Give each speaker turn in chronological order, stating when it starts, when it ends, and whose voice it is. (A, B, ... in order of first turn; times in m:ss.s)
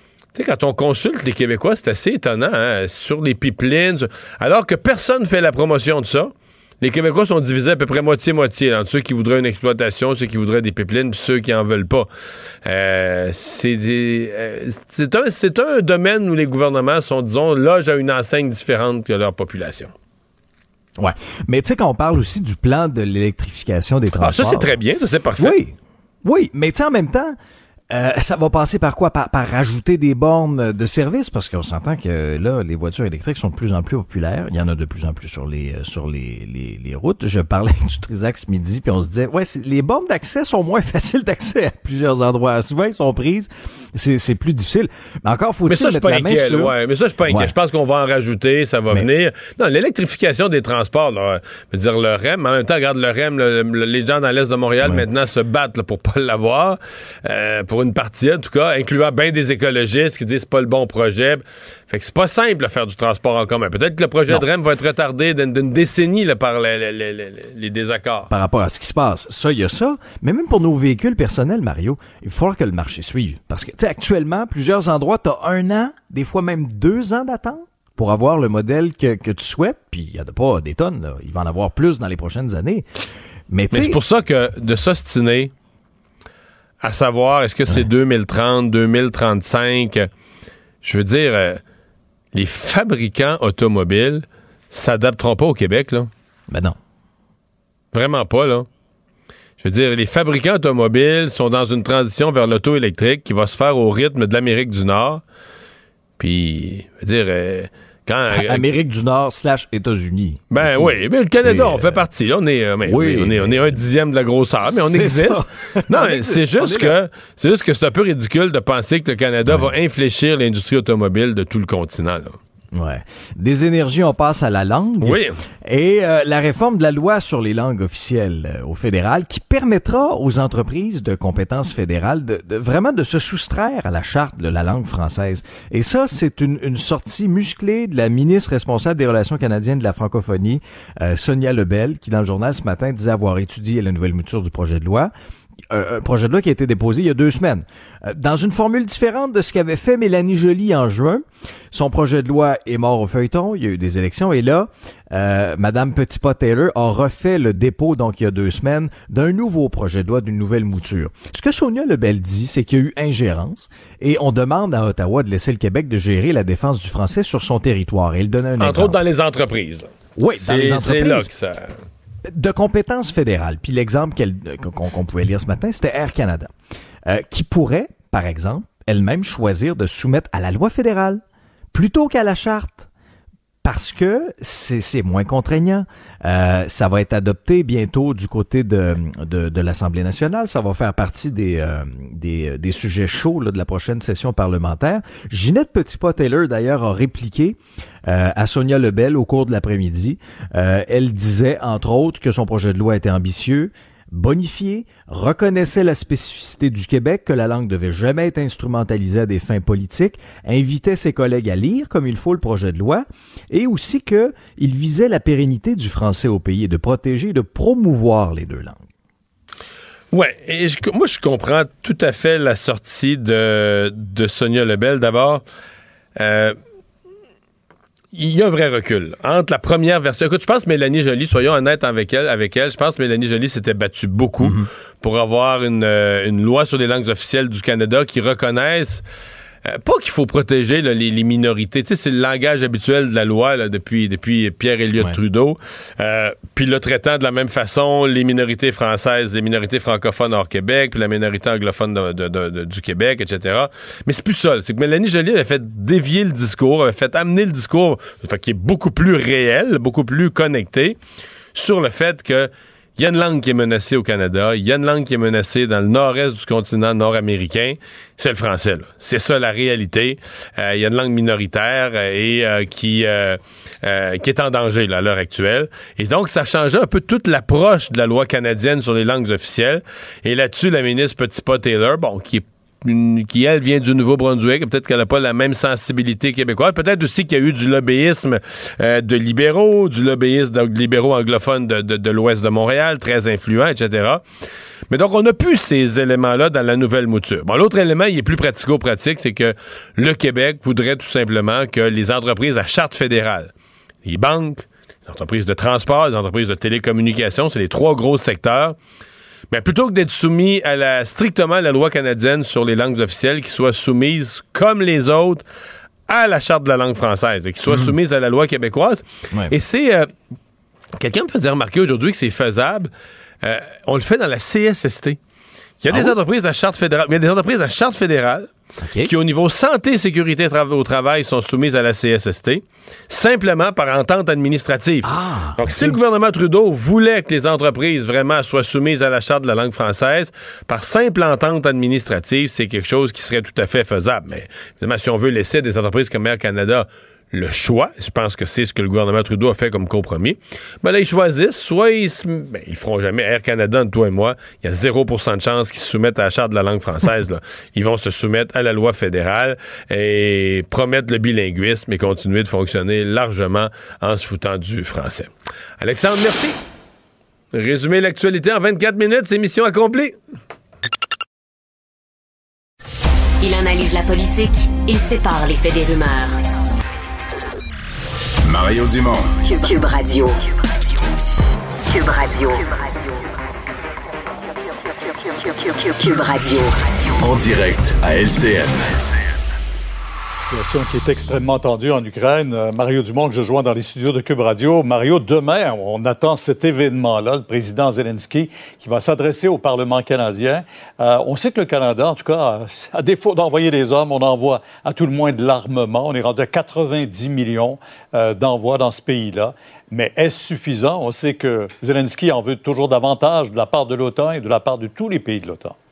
0:00.3-0:12.1 A
0:12.6-0:19.9 A
0:21.0-0:24.8 B
0:24.2-0:25.6 A
0:25.4-0:27.4 B
0:27.9-0:46.7 B
0:45.7-1:08.3 A
0:47.3-0:47.5 B
1:08.3-1:22.9 B
1:23.5-1:24.0 B
1:23.7-1:25.5 A
1:26.8-1:30.1 A
1:30.8-1:31.6 A
1:32.3-1:36.1 A
1:36.5-1:36.8 B
1:37.9-1:38.7 A
1:39.6-1:45.2 A
1:46.2-1:48.6 A
1:48.3-1:52.0 B
1:50.5-2:02.4 A
1:52.8-1:53.9 B
1:54.7-1:57.0 B
1:59.4-1:59.7 B
2:02.7-2:25.1 B
2:05.0-2:05.4 A
2:25.7-2:49.0 B
2:48.6-2:51.7 A
2:50.2-2:51.3 B
2:52.3-2:56.5 B
2:57.0-3:01.2 B
3:01.7-3:02.9 B
3:03.6-3:38.8 B
3:40.1-3:45.4 A
3:46.2-3:46.6 A
3:48.1-3:59.0 A
3:54.4-3:54.7 B
3:59.6-4:21.0 A
4:21.6-4:54.2 A
4:54.9-5:03.5 A
5:04.0-5:08.8 A
5:09.5-5:15.4 A
5:16.1-5:20.1 A
5:21.0-5:22.9 A
5:23.4-5:25.2 A
5:25.8-5:28.5 A
5:25.9-5:26.2 B
5:28.8-5:29.1 B
5:29.0-6:06.6 A
5:35.0-5:36.0 B
6:07.5-6:10.2 A
6:13.4-6:16.4 C
6:18.4-6:19.4 D
6:19.4-6:20.4 C
6:21.9-6:23.2 C
6:25.3-6:26.8 C
6:27.2-6:29.2 D
6:30.4-6:55.8 E